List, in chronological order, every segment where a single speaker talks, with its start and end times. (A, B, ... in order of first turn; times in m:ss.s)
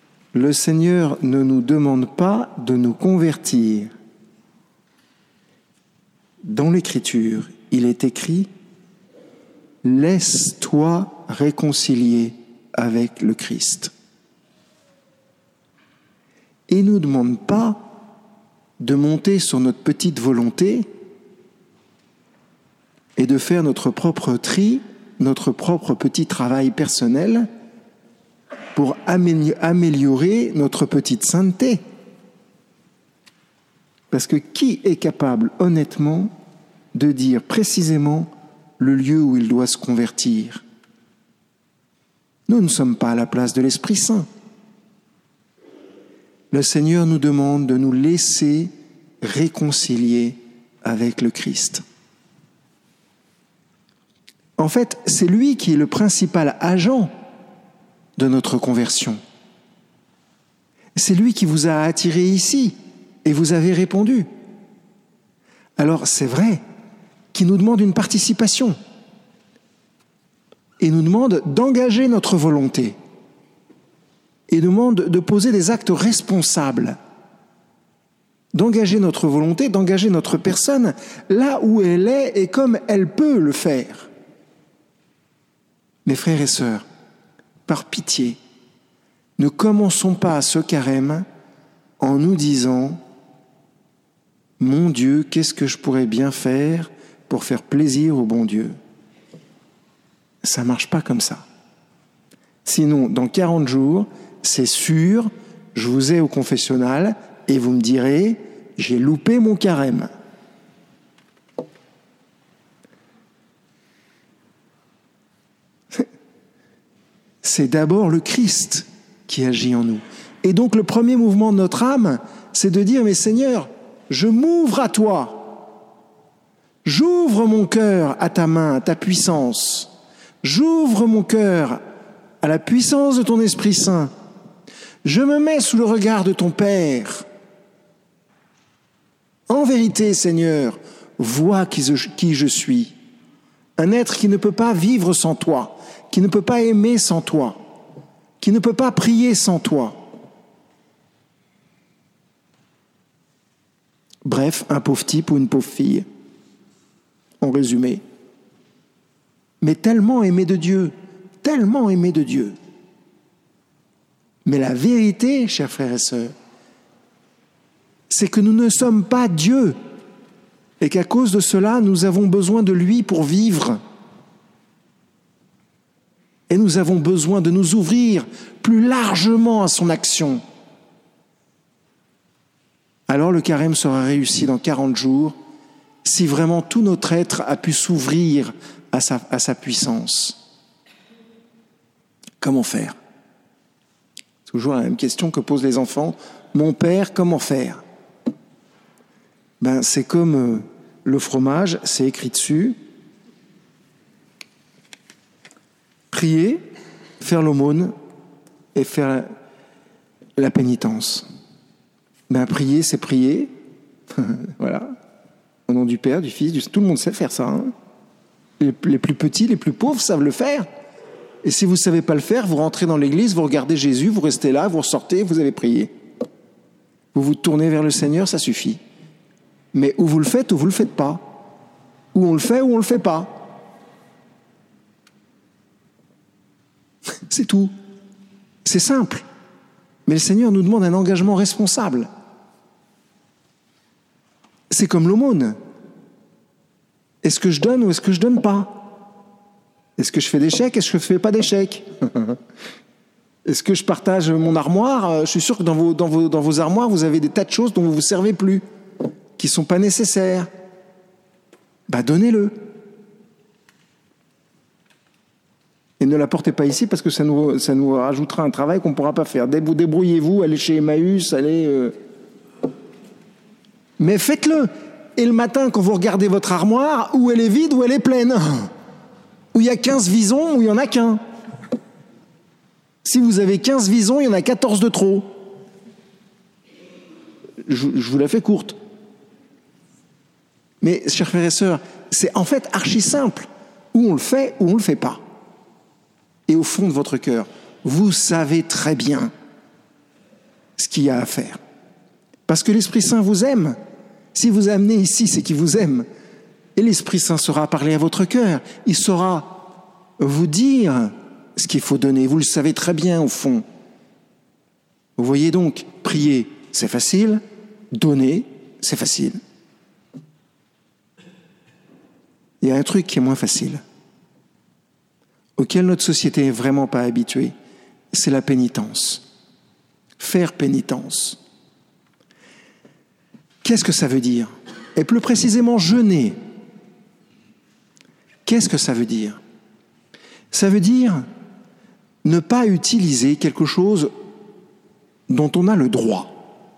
0:00.3-0:03.9 A
0:06.4-0:08.5 A
0:09.8-0:13.9 A
0:16.7-0:17.8 A
0:18.8-0:20.9 A
0:23.2-0:27.5 A
0:28.7-0:31.8 A
0:34.1-0:36.3 A
0:36.9-0:40.6 A
0:42.5-0:44.3 A
0:46.5-0:51.8 A
0:54.6-0:57.1 A
0:58.2-0:59.2 A
1:00.9-1:04.3 A
1:05.8-1:06.6 A
1:07.3-1:08.8 A
1:10.8-1:13.0 A
1:14.5-1:17.0 A
1:18.5-1:24.1 A
1:26.0-1:26.8 A
1:27.7-1:28.4 A
1:29.4-1:31.2 A
1:32.0-1:33.0 A
1:34.6-1:38.8 A
1:40.4-1:41.4 A
1:42.6-1:50.1 A
1:57.4-2:05.5 A
2:06.8-2:09.9 A
2:10.4-2:11.8 A
2:12.4-2:14.1 A
2:15.0-2:17.2 A
2:19.5-2:22.9 A
2:23.8-2:27.6 A
2:28.4-2:30.0 A
2:34.2-2:36.0 A
2:37.4-2:38.0 A
2:39.6-2:42.6 A
2:44.4-2:46.3 A
2:48.1-2:49.8 A
2:50.8-2:53.8 A
2:56.5-3:00.4 A
3:03.1-3:05.4 A
3:06.0-3:10.4 A
3:12.4-3:13.0 A
3:14.4-3:17.8 A
3:19.6-3:22.8 A
3:26.1-3:26.6 A
3:27.2-3:27.9 A
3:28.7-3:29.3 A
3:30.4-3:31.2 A
3:32.3-3:33.5 A
3:34.1-3:34.9 A
3:35.7-3:37.7 A
3:38.6-3:40.7 A
3:41.4-3:45.9 A
3:47.1-3:48.8 A
3:49.7-3:51.2 A
3:52.1-3:53.5 A
3:57.3-3:57.7 A
3:58.6-3:59.2 A
4:00.0-4:02.1 A
4:04.7-4:05.6 A
4:07.2-4:08.8 A
4:10.0-4:12.4 A
4:13.4-4:18.6 A
4:19.4-4:20.5 A
4:21.9-4:22.6 A
4:26.0-4:31.9 A
4:34.0-4:38.7 A
4:39.5-4:41.2 A
4:43.0-4:45.3 A
4:47.6-4:48.8 A
4:50.8-4:55.2 A
4:56.5-4:59.3 A
5:00.8-5:01.6 A
5:02.5-5:03.8 A
5:04.3-5:06.0 A
5:06.8-5:09.6 A
5:10.2-5:13.6 A
5:15.2-5:17.4 A
5:17.9-5:19.4 A
5:22.6-5:23.8 A
5:25.6-5:27.5 A
5:28.1-5:29.2 A
5:30.2-5:31.4 A
5:33.6-5:36.4 A
5:38.4-5:39.4 A
5:40.5-5:41.2 A
5:42.2-5:44.1 A
5:45.3-5:46.3 A